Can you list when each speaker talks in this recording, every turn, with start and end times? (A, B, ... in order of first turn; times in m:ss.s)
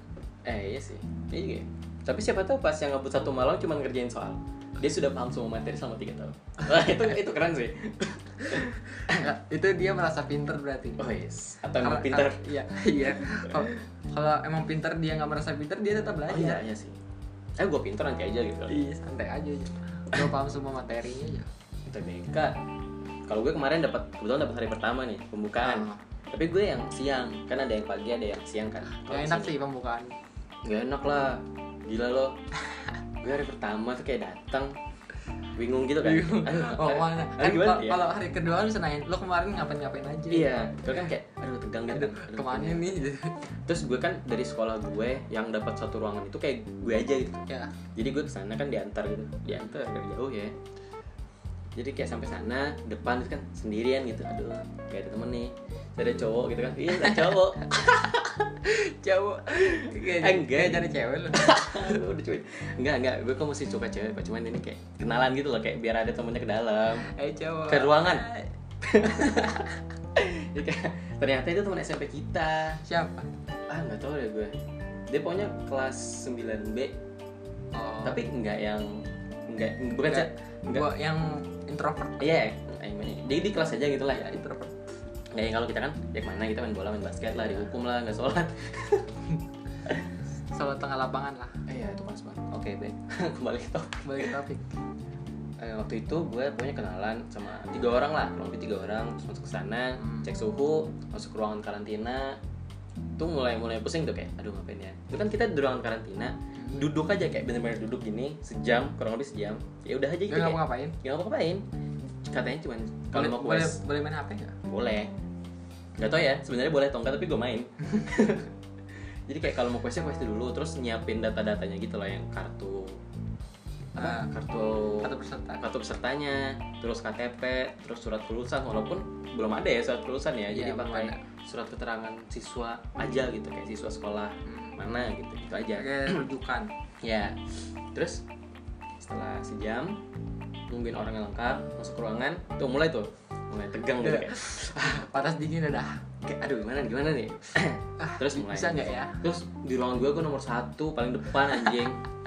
0:00.4-0:09.3 A
0:08.5-0:11.0 B
0:11.0-0:12.4 A
0:11.7-0:16.6 B
0:13.1-0:13.8 A
0:16.3-0:17.0 A
0:17.6-0:18.8 A
0:18.7-0:21.5 B
0:21.9-0:22.6 A
0:23.3-0:29.6 A
0:25.6-0:26.0 B
0:28.9-0:30.2 B
0:30.6-0:32.4 A
0:33.2-0:34.8 A
0:35.6-0:38.1 A
0:36.0-0:40.5 B
0:40.3-0:50.5 A
0:41.9-0:43.4 B
0:47.5-0:47.7 B
0:51.8-0:58.5 A
0:57.0-1:02.0 B
0:59.5-1:07.1 A
1:07.0-1:09.8 B
1:07.7-1:08.3 A
1:08.8-1:09.6 A
1:10.2-1:12.8 A
1:12.8-1:13.3 B
1:13.7-1:14.6 A
1:15.1-1:17.0 A
1:17.7-1:18.2 B
1:18.0-1:20.9 A
1:19.9-1:22.3 B
1:22.2-1:24.3 A
1:24.1-1:24.9 B
1:25.3-1:29.2 A
1:29.8-1:30.1 A
1:30.5-1:31.6 B
1:31.7-1:34.4 A
1:34.0-1:34.8 B
1:35.6-1:42.4 A
1:40.0-1:40.3 B
1:43.2-1:51.7 A
1:46.6-1:46.9 B
1:50.3-1:51.0 B
1:52.2-1:53.8 A
1:53.1-1:54.6 B
1:54.7-1:55.1 A
1:56.0-1:58.6 A
1:59.3-2:03.0 A
2:04.0-2:16.2 A
2:04.0-2:04.3 B
2:05.0-2:05.6 B
2:10.5-2:11.2 B
2:14.4-2:14.8 B
2:15.7-2:16.7 B
2:17.0-2:18.2 A
2:19.0-2:20.0 A
2:20.7-2:25.1 A
2:24.0-2:26.0 B
2:26.2-2:32.0 A
2:28.0-2:29.2 B